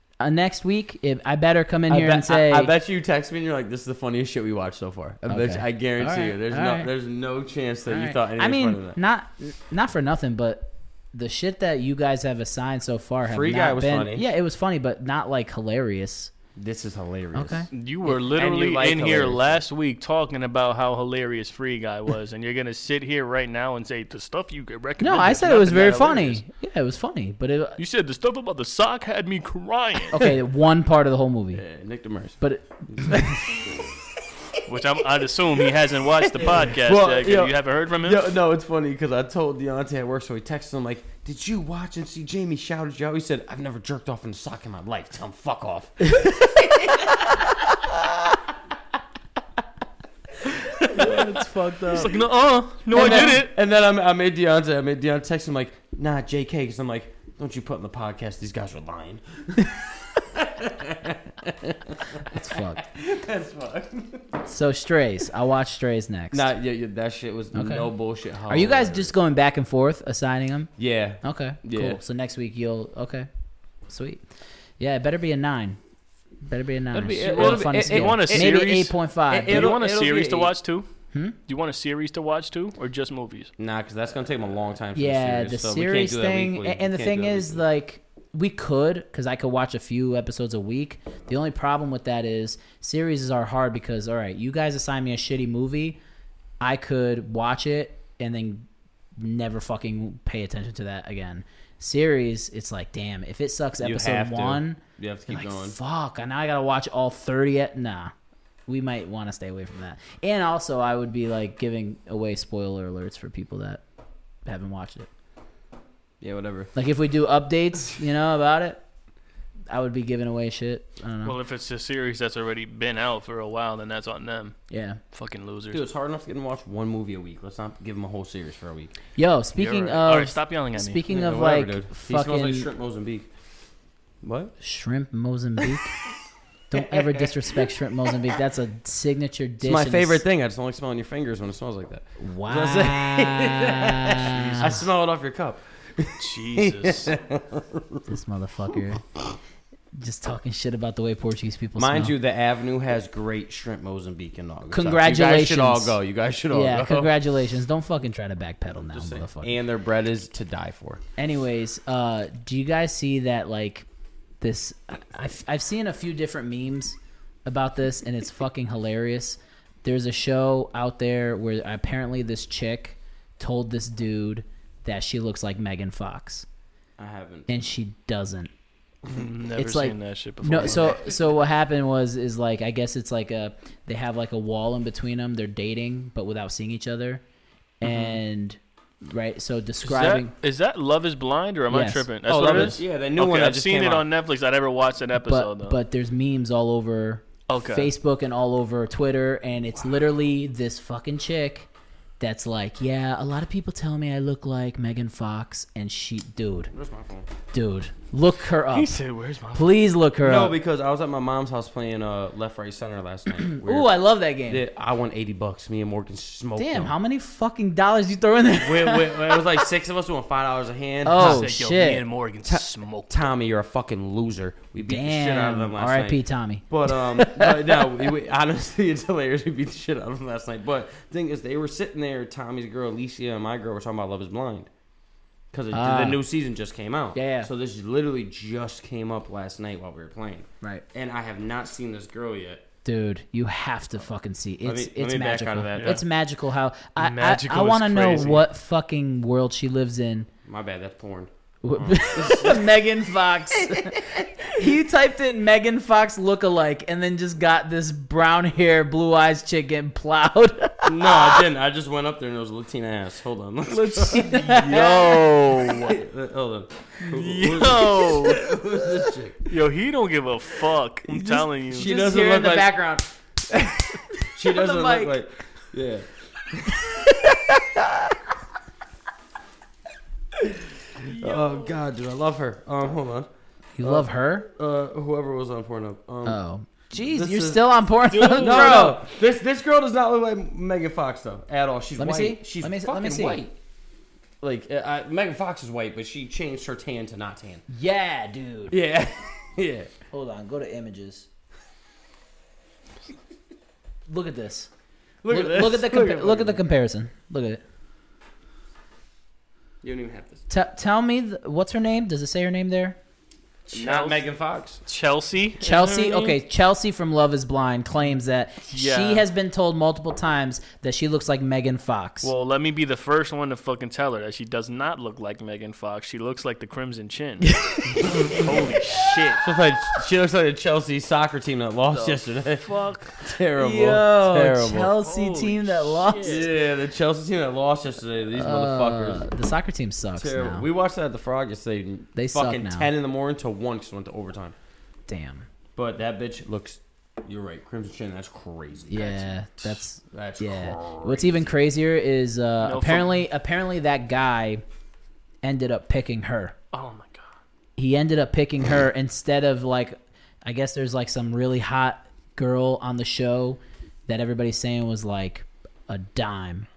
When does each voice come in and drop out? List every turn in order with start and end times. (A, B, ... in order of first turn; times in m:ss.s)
0:00.2-0:02.7 A
0:01.9-0:09.0 B
0:05.3-0:06.9 A
0:07.9-0:16.3 A
0:13.2-0:14.2 B
0:16.6-0:19.6 B
0:17.3-0:17.7 A
0:17.7-0:26.4 C
0:25.0-0:27.8 A
0:27.8-0:30.2 C
0:30.1-0:31.6 A
0:31.5-0:32.4 B
0:32.4-0:33.5 A
0:32.9-0:33.9 B
0:34.6-0:38.3 C
0:36.3-0:48.1 B
0:50.8-0:52.1 B
0:50.8-0:53.5 C
0:50.9-0:52.1 A
0:52.9-1:04.3 B
0:52.9-0:53.3 A
1:02.2-1:02.8 A
1:04.4-1:06.5 A
1:06.3-1:09.1 B
1:07.5-1:07.9 A
1:08.5-1:13.3 A
1:10.8-1:12.0 B
1:13.9-1:14.2 A
1:14.8-1:15.8 A
1:16.4-1:19.7 A
1:16.9-1:18.7 B
1:17.2-1:20.9 C
1:19.3-1:20.5 B
1:21.5-1:23.5 C
1:23.6-1:27.6 B
1:24.9-1:36.0 A
1:36.6-1:38.6 A
1:39.2-1:48.1 A
1:43.8-1:45.8 B
1:48.7-1:53.8 A
1:54.4-1:55.1 A
1:56.2-1:56.7 B
1:56.7-1:58.8 A
1:59.7-2:01.4 A
2:01.2-2:04.6 C
2:04.7-2:05.0 A
2:05.1-2:05.8 C
2:05.7-2:08.9 B
2:09.2-2:12.7 A
2:09.5-2:11.0 C
2:11.1-2:13.3 B
2:14.2-2:14.5 B
2:14.6-2:15.9 A
2:16.7-2:20.2 A
2:17.0-2:17.2 B
2:19.6-2:28.0 B
2:22.2-2:24.8 A
2:24.2-2:24.8 C
2:26.2-2:27.1 C
2:28.1-2:29.0 A
2:29.9-2:32.1 A
2:31.8-2:37.2 B
2:34.7-2:36.0 A
2:36.5-2:39.6 A
2:38.9-2:41.0 B
2:41.2-2:43.9 A
2:44.4-2:56.4 A
2:57.0-2:57.5 B
2:57.5-2:58.5 A
2:59.1-3:01.0 C
2:59.6-3:07.2 A
3:00.6-3:01.1 B
3:07.8-3:10.3 A
3:07.8-3:08.2 C
3:09.8-3:15.8 C
3:11.7-3:12.7 A
3:12.2-3:14.0 B
3:15.2-3:21.7 A
3:17.5-3:17.9 C
3:22.2-3:26.7 A
3:26.7-3:27.3 B
3:27.5-3:29.0 A
3:28.7-3:29.8 C
3:29.5-3:30.5 A
3:30.2-3:36.9 B
3:33.4-3:34.6 A
3:36.6-3:39.6 A
3:38.6-3:41.4 B
3:41.0-3:42.0 A
3:41.1-3:43.3 C
3:42.4-3:54.7 B
3:44.8-3:47.9 A
3:55.5-4:02.6 B
3:55.7-3:56.2 A
3:57.1-3:57.5 A
4:02.8-4:10.3 A
4:04.6-4:06.0 B
4:05.8-4:06.0 C
4:07.0-4:08.4 C
4:10.4-4:12.7 B
4:11.6-4:21.4 A
4:13.6-4:14.5 B
4:20.8-4:29.5 B
4:23.9-4:25.8 A
4:23.9-4:26.0 C
4:27.0-4:28.5 C
4:29.5-4:31.9 C
4:31.1-4:38.1 B
4:31.7-4:33.0 A
4:34.4-4:35.2 A
4:40.4-4:43.3 B
4:43.8-4:44.5 A
4:43.8-4:46.4 B
4:46.2-4:49.0 A
4:46.9-4:47.8 B
4:48.1-4:49.0 C
4:48.4-4:53.6 B
4:52.0-4:53.4 A
4:54.4-4:57.6 B
4:57.7-4:58.8 A
4:58.7-4:59.9 B
5:00.1-5:01.3 A
5:04.1-5:04.7 A
5:05.2-5:06.6 B
5:05.3-5:07.6 A
5:09.8-5:10.4 B
5:10.5-5:13.0 A
5:13.7-5:14.2 C
5:13.7-5:14.8 B
5:14.8-5:16.4 C
5:15.6-5:22.3 A
5:18.7-5:19.2 C
5:22.2-5:29.4 C
5:27.5-5:28.4 A
5:28.0-5:28.4 B
5:29.4-5:34.9 B
5:31.9-5:33.2 C
5:33.6-5:36.5 A
5:35.0-5:36.5 C
5:36.2-5:39.2 B
5:38.4-5:40.7 A
5:40.2-5:44.5 B
5:42.2-5:42.9 A
5:45.1-5:45.5 A
5:45.8-5:49.2 B
5:48.9-5:54.6 A
5:50.0-5:51.6 B
5:52.6-5:53.2 C
5:55.4-5:56.6 A
5:56.7-5:57.3 C
5:57.8-6:06.7 A